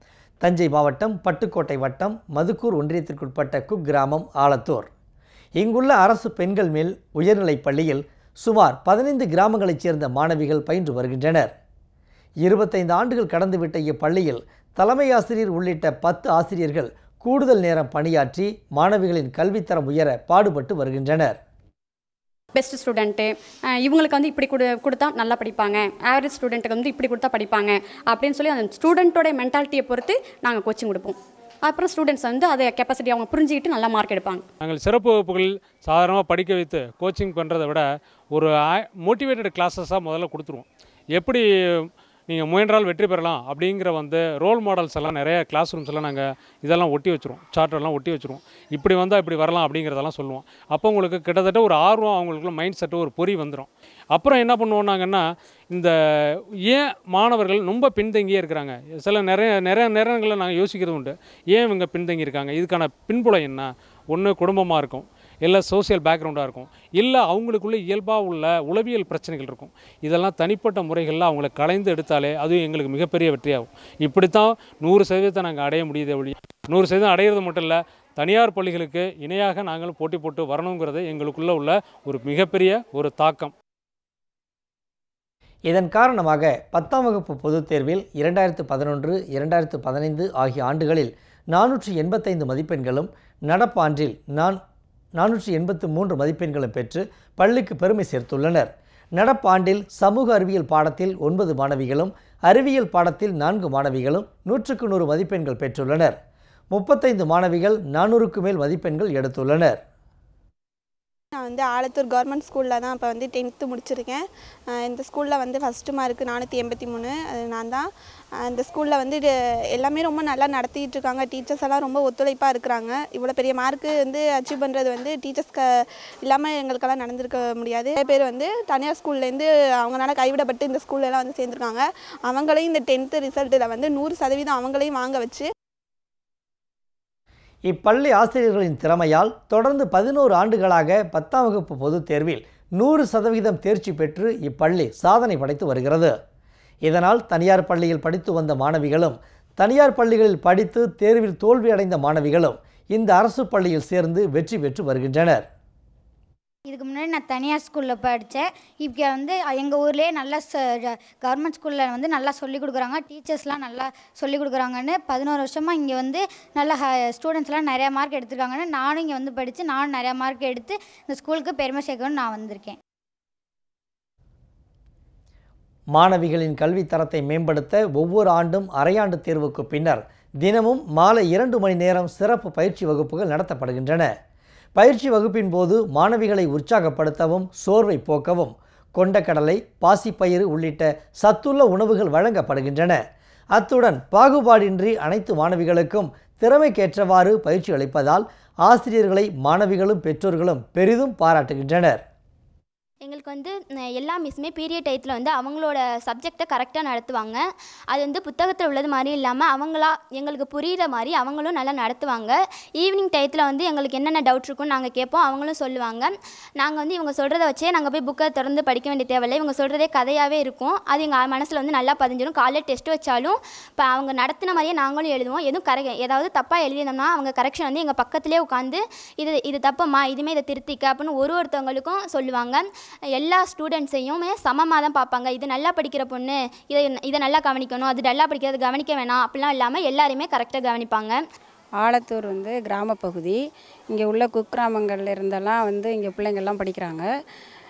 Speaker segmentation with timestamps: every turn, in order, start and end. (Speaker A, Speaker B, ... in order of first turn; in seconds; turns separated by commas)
Speaker A: 0.4-4.9, Speaker A: 5.6-11.5, Speaker A: 12.4-21.4, Speaker B: 22.6-23.3, Speaker B: 23.9-31.1, Speaker B: 31.7-34.4, Speaker C: 34.6-55.9, Speaker C: 56.7-83.5, Speaker A: 85.7-94.6, Speaker A: 95.2-106.2, Speaker A: 106.7-109.8, Speaker D: 111.3-117.9, Speaker D: 118.4-125.7, Speaker D: 126.2-135.5, Speaker A: 137.7-146.2, Speaker A: 146.8-155.5, Speaker E: 156.7-172.8, Speaker A: 175.9-184.1, Speaker A: 184.8-193.0, Speaker A: 193.6-202.0, Speaker F: 203.0-241.2, Speaker G: 241.8-243.4, Speaker G: 243.9-247.1